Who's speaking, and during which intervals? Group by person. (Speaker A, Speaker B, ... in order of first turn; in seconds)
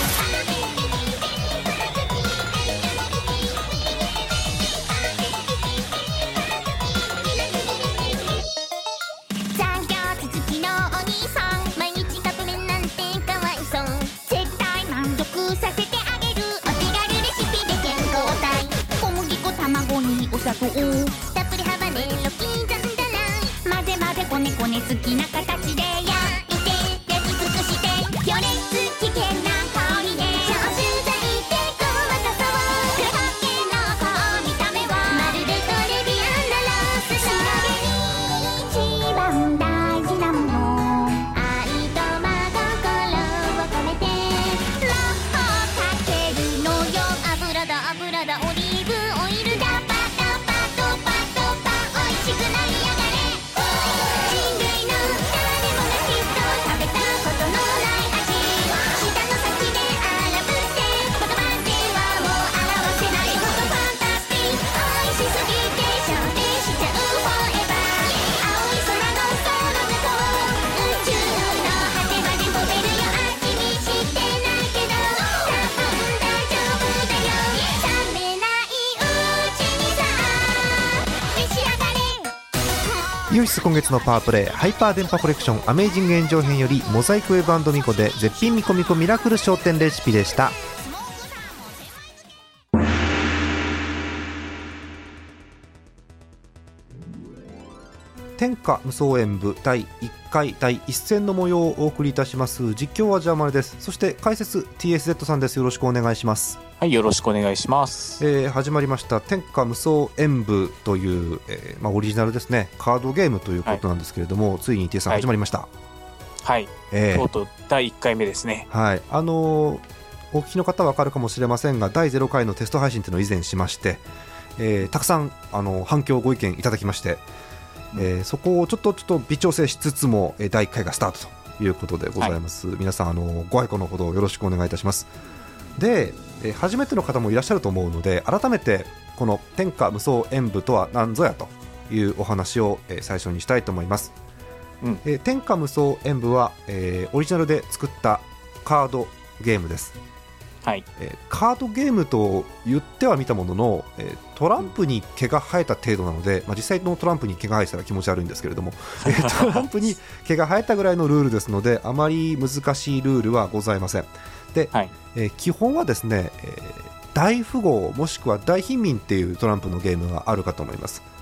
Speaker A: 0.5-1.1, 2.7-3.6, 7.3-8.1, 9.5-82.3
Speaker B: 83.3-90.6, 98.4-106.6, 108.2-115.7, 116.9-117.3, 118.7-124.0, 124.6-127.2, 127.9-135.1, 135.8-144.1, 145.0-149.9, 151.0-171.0
Speaker C: 106.8-108.2, 116.4-118.7, 159.0-159.6